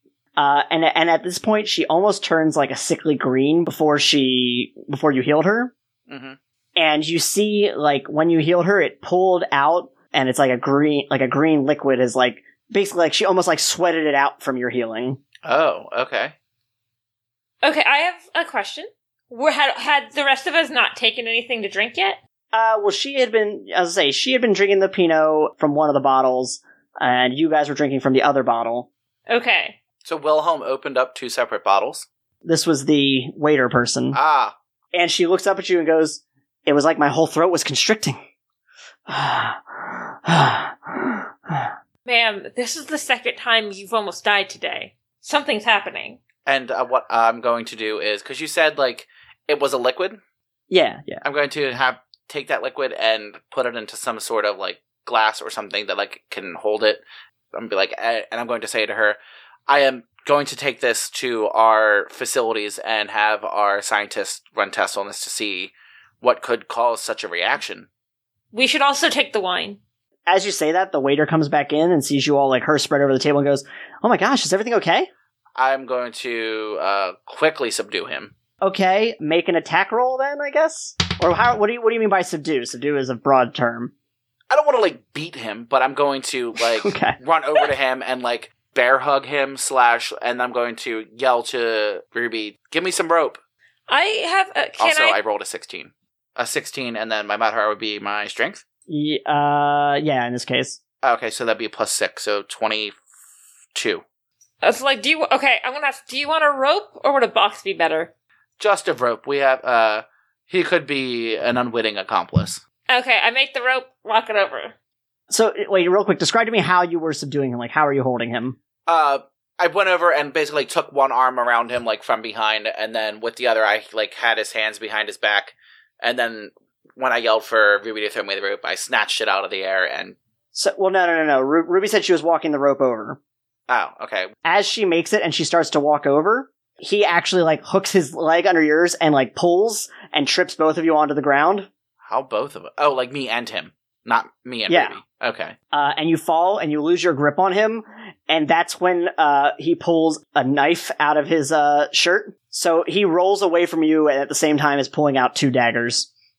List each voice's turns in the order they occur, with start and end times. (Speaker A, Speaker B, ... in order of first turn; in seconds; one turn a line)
Speaker A: 0.4-5.7
Speaker B: 6.1-6.4
Speaker A: 6.8-15.2
Speaker B: 15.4-16.3
Speaker C: 17.6-22.2
Speaker A: 22.5-28.9
Speaker C: 29.3-29.8
Speaker B: 30.1-32.1
Speaker A: 32.4-34.2
Speaker B: 34.1-34.5
Speaker A: 34.9-38.2
Speaker A: 39.1-41.7
Speaker C: 42.1-46.2
Speaker B: 46.5-50.2
Speaker A: 50.7-51.2
Speaker B: 51.2-57.0
Speaker B: 57.5-59.2
Speaker B: 59.7-67.9
Speaker C: 68.5-69.8
Speaker A: 70.3-75.1
Speaker B: 75.5-78.3
Speaker A: 78.6-83.9
Speaker B: 84.5-93.4
Speaker A: 86.7-87.2
Speaker C: 93.9-95.2
Speaker B: 94.8-98.6
Speaker A: 98.9-100.8
Speaker B: 101.0-103.0
Speaker B: 103.7-104.0
Speaker C: 104.6-108.1
Speaker B: 108.6-112.6
Speaker C: 112.9-114.7
Speaker A: 115.3-118.6
Speaker B: 118.9-130.2
Speaker A: 130.5-133.2
Speaker B: 133.7-134.3
Speaker A: 134.4-141.7
Speaker B: 142.1-145.6
Speaker A: 144.7-144.9
Speaker A: 145.7-156.1